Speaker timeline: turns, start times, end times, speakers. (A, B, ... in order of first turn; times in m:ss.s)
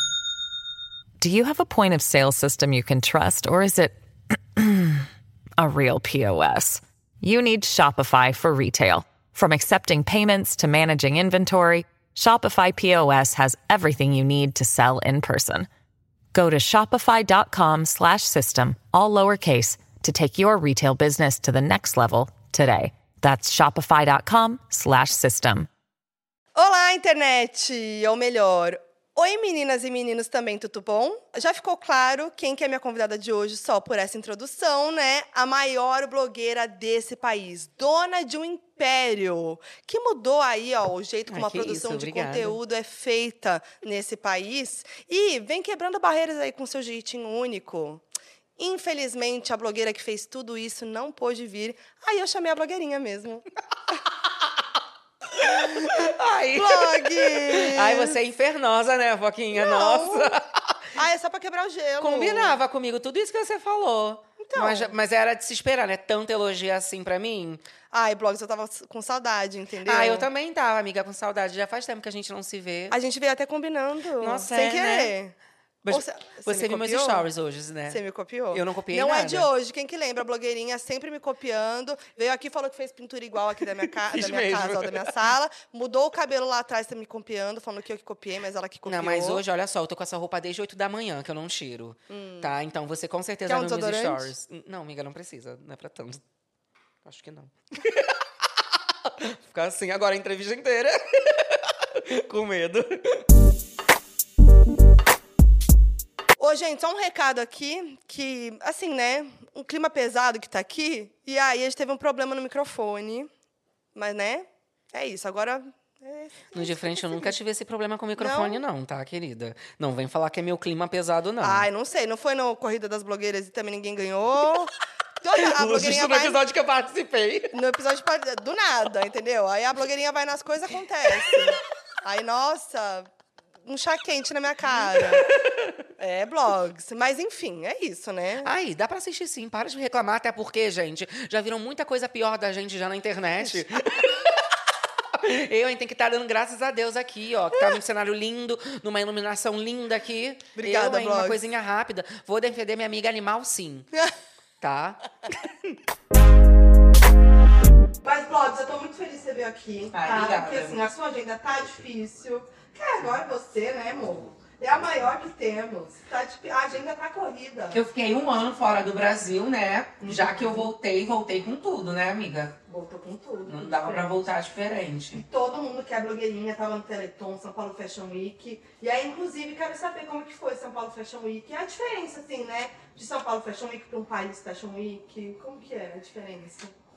0:01.2-0:04.0 A
0:04.6-0:05.1 A
0:05.6-0:15.7 A
0:16.3-0:25.7 A
0:26.6-0:48.0 B
0:41.3-0:42.6 C
0:48.6-0:53.5 B
0:55.3-1:00.9 C
0:55.6-0:58.2 B
0:59.5-1:00.4 B
1:01.0-1:02.6 B
1:02.0-1:07.6 C
1:04.4-1:04.9 B
1:07.9-1:10.3 B
1:09.8-1:13.0 C
1:12.9-1:15.4 B
1:14.2-1:15.2 C
1:15.8-1:19.5 C
1:15.9-1:17.3 B
1:17.9-1:29.4 B
1:23.9-1:25.2 C
1:28.9-1:36.2 C
1:32.1-1:32.5 B
1:33.5-1:34.3 B
1:37.0-1:38.2 C
1:39.0-1:43.2 C
1:46.4-1:53.3 B
1:54.0-1:57.3 B
1:56.5-2:01.7 C
1:58.2-1:58.6 B
2:01.4-2:06.4 B
2:05.4-2:07.6 C
2:07.5-2:13.1 B
2:11.1-2:11.5 C
2:13.7-2:15.4 B
2:14.8-2:15.8 C
2:16.0-2:18.5 B
2:18.4-2:24.6 C
2:25.1-2:33.9 C
2:30.6-2:31.4 B
2:34.6-2:35.0 C
2:38.0-2:47.8 B
2:39.9-2:40.8 C
2:47.7-2:52.6 C
2:50.0-2:50.7 B
2:52.7-2:54.2 B
2:53.5-2:55.2 C
2:55.1-3:06.7 B